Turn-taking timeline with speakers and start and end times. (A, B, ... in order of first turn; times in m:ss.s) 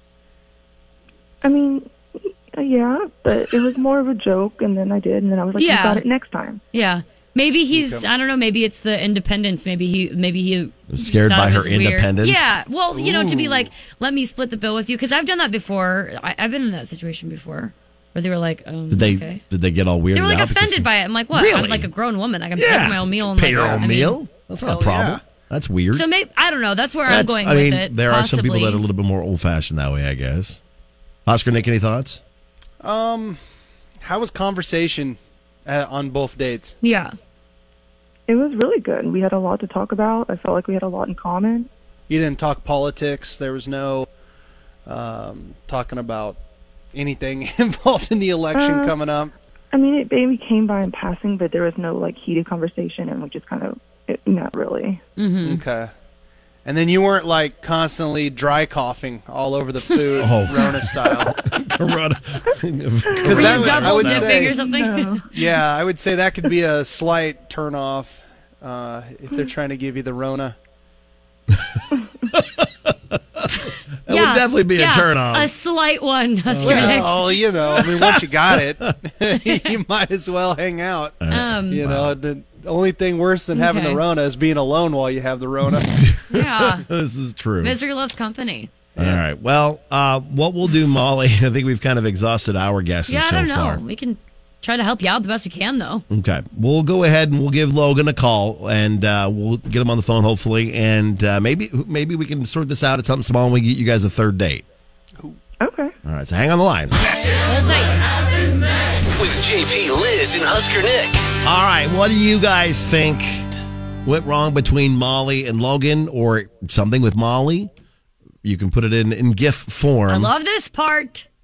0:01.4-0:06.6 A
0:05.6-0:06.0 B
0:06.7-0:19.4 B
0:07.7-0:08.0 C
0:10.9-0:12.5 D
0:12.9-0:13.7 C
0:18.9-0:21.9 D
0:20.1-0:24.2 B
0:22.6-0:26.0 D
0:23.4-0:23.8 C
0:24.6-0:25.2 C
0:25.9-0:28.8 B
0:27.1-0:30.6 D
0:31.2-0:32.2 D
0:32.8-0:33.4 C
0:34.0-0:36.7 C
0:36.8-0:37.1 B
0:38.3-0:41.7 A
0:42.1-0:44.1 C
0:44.8-0:46.4 C
0:46.9-0:49.3 C
0:48.5-0:49.0 A
0:49.7-0:55.0 A
0:55.2-0:55.6 B
0:55.4-0:55.9 C
0:56.6-1:01.4 C
1:00.2-1:04.5 D
1:03.2-1:04.5 C
1:03.2-1:05.2 B
1:04.2-1:05.5 A
1:05.3-1:10.6 C
1:11.5-1:13.5 D
1:14.0-1:15.5 D
1:14.1-1:17.4 B
1:16.5-1:17.2 D
1:16.6-1:26.2 C
1:17.7-1:18.2 D
1:21.2-1:22.2 D
1:21.3-1:21.8 B
1:23.5-1:24.0 B
1:26.3-1:26.9 B
1:26.3-1:27.8 D
1:27.6-1:28.7 B
1:29.0-1:33.8 D
1:33.1-1:36.0 B
1:36.1-1:44.6 D
1:45.6-1:45.9 A
1:46.0-1:46.9 D
1:47.5-1:47.9 B
1:49.1-1:51.2 E
1:51.4-1:53.4 D
1:54.0-1:57.7 D
1:58.4-2:00.3 D
2:00.1-2:01.2 B